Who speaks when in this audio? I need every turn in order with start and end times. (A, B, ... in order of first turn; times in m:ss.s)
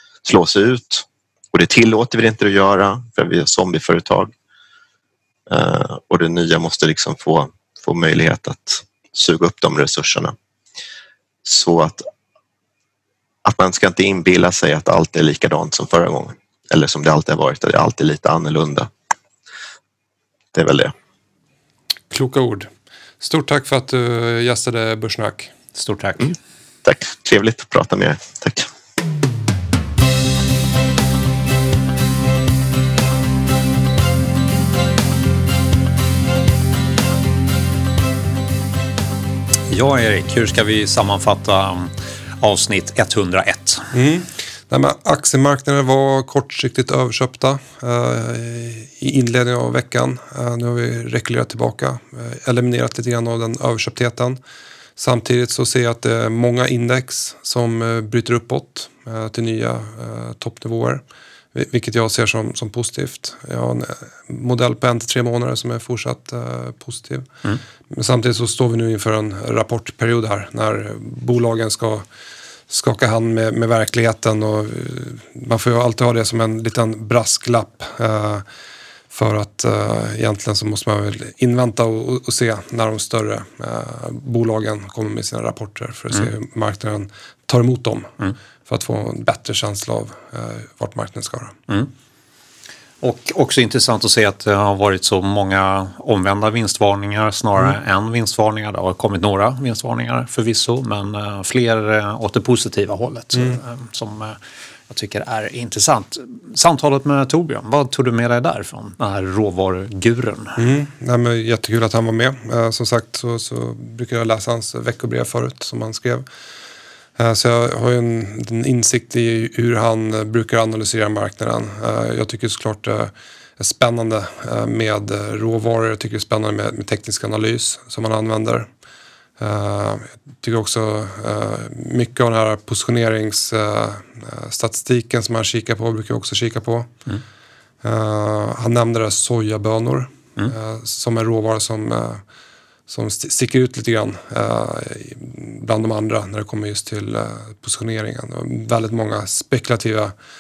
0:00.2-0:04.3 A
0:05.5-0:10.3 A
0:11.4-0:12.0 A
0:13.4-0:18.9 A
0:20.5-0:20.9 A
0:22.1-0:22.7 B
0:23.2-0:25.5 B
0:25.7-0:26.3 C
0:26.8-0:28.7 A
0:39.7-0:43.8 C
0:43.9-0:54.4 B
0:55.0-1:01.0 B
1:01.5-1:07.3 B
1:07.9-1:12.0 B
1:12.7-1:18.4 B
1:19.1-1:31.6 B
1:33.0-1:44.4 C
1:44.9-1:50.6 C
1:50.6-1:56.2 B
1:57.2-2:08.7 B
2:09.4-2:16.9 B
2:17.8-2:22.2 B
2:22.9-2:30.1 B